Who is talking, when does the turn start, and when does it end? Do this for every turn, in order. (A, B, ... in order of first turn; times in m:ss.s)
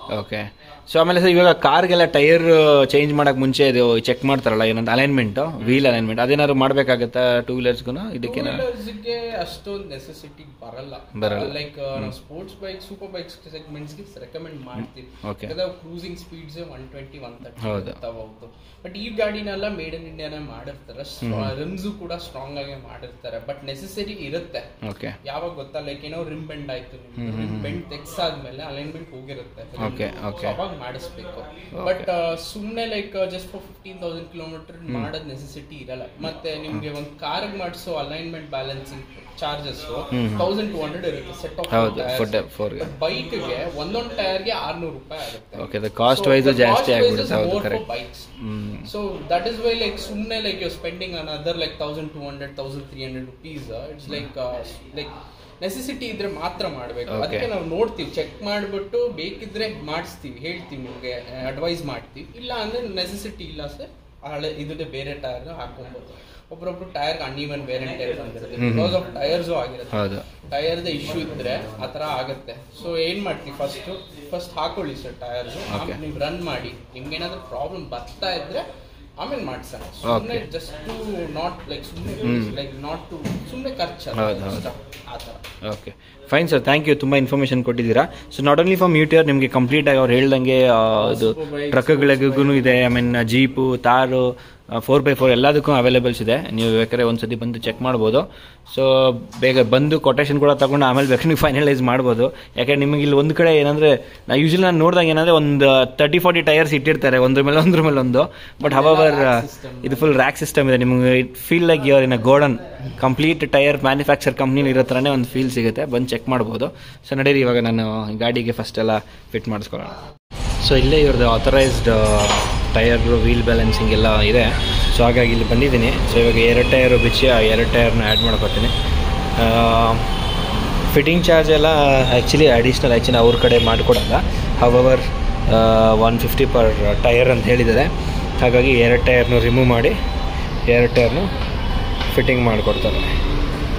0:00.1-0:08.6 A
0:08.2-0:24.7 B
0:11.2-0:12.1 A
0:15.2-0:15.5 A
0:17.6-0:18.0 A
0:21.2-0:21.5 A
0:24.8-0:25.2 A
0:25.2-0:48.3 B
0:27.2-0:27.8 A
0:29.8-0:30.6 A
0:31.7-0:32.1 A
0:40.1-0:40.5 A
0:41.7-0:42.9 A
0:45.6-0:47.8 A
0:48.4-0:48.9 A
0:48.8-1:18.6 B
0:57.1-0:57.5 A
1:08.6-1:09.0 A
1:09.9-1:10.2 A
1:15.7-1:16.0 A
1:19.2-1:25.4 B
1:20.0-1:20.5 A
1:22.2-1:22.6 A
1:24.1-1:24.7 A
1:25.6-2:00.0 A
1:31.0-1:32.8 B
1:48.6-1:50.2 B
2:00.6-2:08.7 A
2:09.4-2:10.1 A
2:10.8-2:19.9 A
2:20.7-2:21.3 A
2:22.1-2:23.1 A